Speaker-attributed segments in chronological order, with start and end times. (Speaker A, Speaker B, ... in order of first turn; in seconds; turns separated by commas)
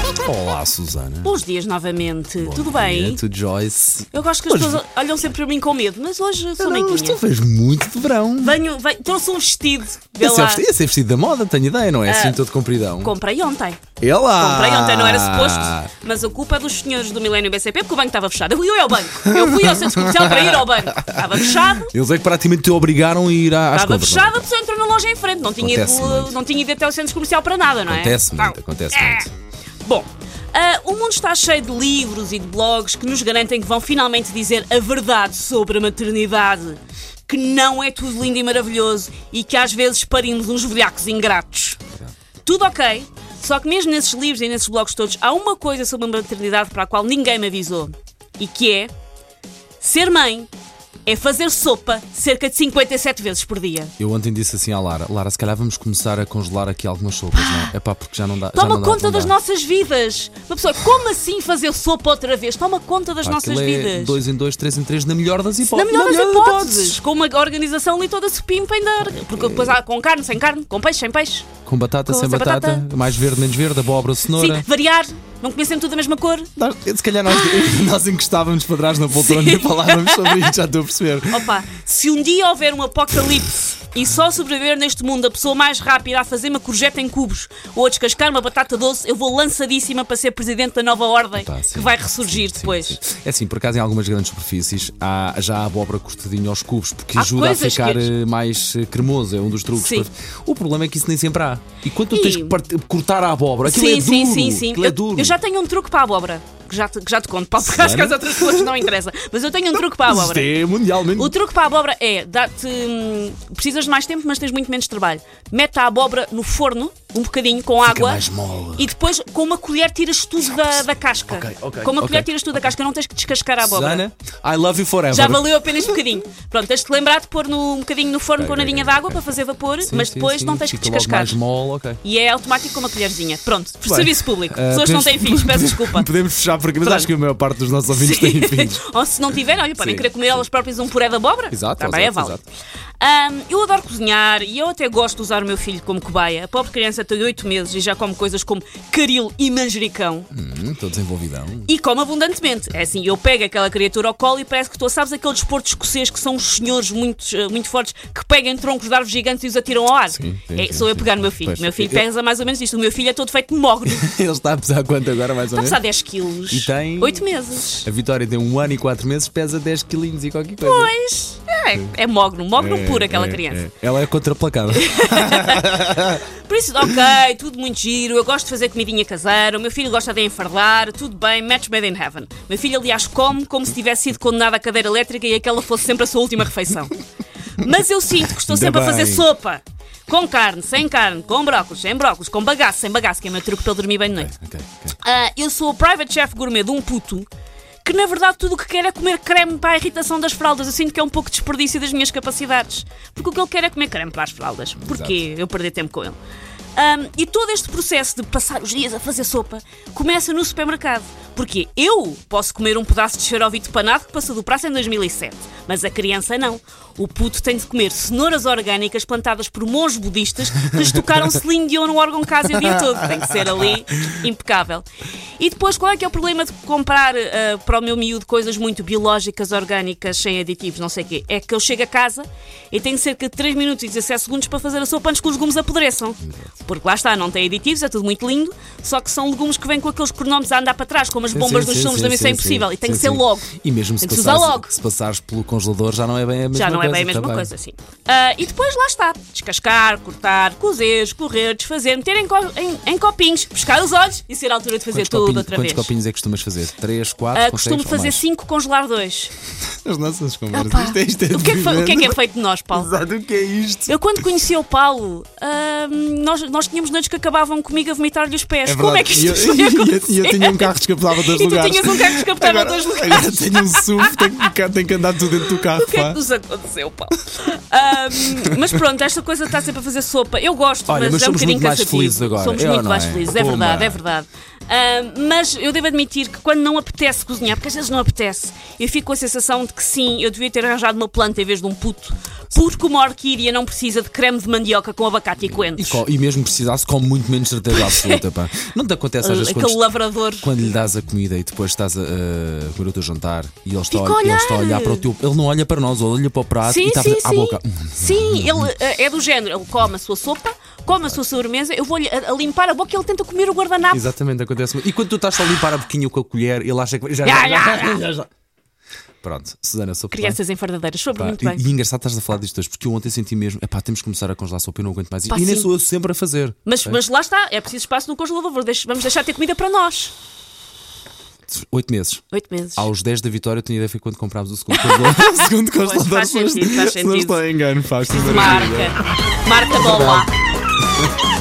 Speaker A: 0.2-1.4, Speaker B: 1.2-3.2, Speaker A: 2.4-4.8, Speaker B: 4.1-7.2, Speaker A: 6.6-8.6, Speaker B: 8.4-10.7, Speaker A: 10.2-13.1, Speaker B: 12.1-12.4, Speaker B: 13.0-13.8, Speaker A: 14.0-15.9, Speaker B: 14.4-21.9, Speaker A: 19.2-24.5, Speaker B: 23.7-29.3, Speaker A: 25.6-26.4, Speaker A: 27.9-29.3, Speaker B: 29.9-41.8, Speaker B: 42.5-48.9, Speaker B: 49.8-50.5, Speaker B: 51.1-53.9, Speaker A: 54.0-59.4, Speaker B: 57.3-57.7, Speaker B: 58.5-64.2, Speaker A: 63.2-67.0, Speaker B: 65.7-71.5, Speaker A: 69.1-69.8, Speaker A: 71.7-74.7, Speaker B: 72.1-72.8, Speaker B: 74.3-76.5, Speaker A: 76.6-81.6, Speaker B: 77.3-77.7, Speaker B: 79.1-80.5, Speaker B: 81.3-93.0, Speaker A: 91.4-105.4, Speaker B: 97.2-98.1, Speaker B: 99.8-100.1, Speaker B: 102.1-102.6, Speaker B: 103.6-110.5, Speaker A: 107.6-108.9, Speaker A: 109.7-111.3, Speaker B: 111.2-118.2, Speaker A: 117.8-118.9, Speaker B: 118.8-124.0, Speaker A: 121.3-122.7, Speaker A: 123.6-126.0, Speaker B: 125.1-131.4, Speaker A: 128.4-129.2, Speaker A: 129.8-132.0, Speaker B: 132.0-136.1, Speaker A: 133.8-138.8, Speaker B: 136.8-137.1, Speaker B: 137.9-142.4, Speaker A: 139.8-140.4, Speaker A: 141.5-142.4, Speaker B: 143.0-150.3, Speaker A: 150.3-151.7, Speaker B: 151.7-164.1, Speaker A: 160.1-162.0, Speaker A: 163.9-165.8, Speaker B: 165.5-167.9, Speaker A: 166.5-167.3, Speaker A: 167.8-170.9, Speaker B: 170.6-173.7, Speaker A: 172.6-176.2, Speaker B: 174.7-187.0, Speaker B: 187.6-194.3, Speaker A: 188.3-189.3, Speaker A: 194.1-195.0, Speaker B: 194.9-197.3, Speaker B: 197.8-206.2, Speaker A: 204.8-205.2, Speaker B: 206.8-224.9, Speaker A: 222.6-223.5, Speaker B: 225.4-244.7, Speaker A: 236.2-236.5, Speaker A: 241.3-247.5, Speaker B: 246.5-255.9, Speaker A: 254.9-258.2, Speaker B: 257.3-259.3, Speaker A: 259.8-262.2, Speaker B: 260.5-262.9, Speaker A: 262.7-264.0, Speaker B: 263.9-274.5, Speaker A: 268.7-276.2, Speaker B: 275.4-296.0, Speaker A: 278.1-278.8, Speaker A: 280.9-284.0, Speaker A: 295.8-299.8, Speaker B: 297.7-298.2, Speaker B: 299.2-300.6, Speaker A: 300.4-308.7, Speaker B: 303.9-305.1, Speaker B: 306.6-314.1, Speaker A: 310.9-311.2, Speaker A: 313.9-318.3, Speaker B: 317.2-318.1, Speaker A: 319.2-320.4, Speaker B: 320.1-321.7, Speaker A: 321.1-327.0, Speaker B: 325.3-325.7, Speaker B: 326.6-330.1, Speaker A: 331.5-332.2, Speaker B: 332.3-332.9, Speaker A: 332.8-339.0, Speaker B: 334.7-337.4, Speaker B: 338.1-340.3, Speaker A: 339.8-340.3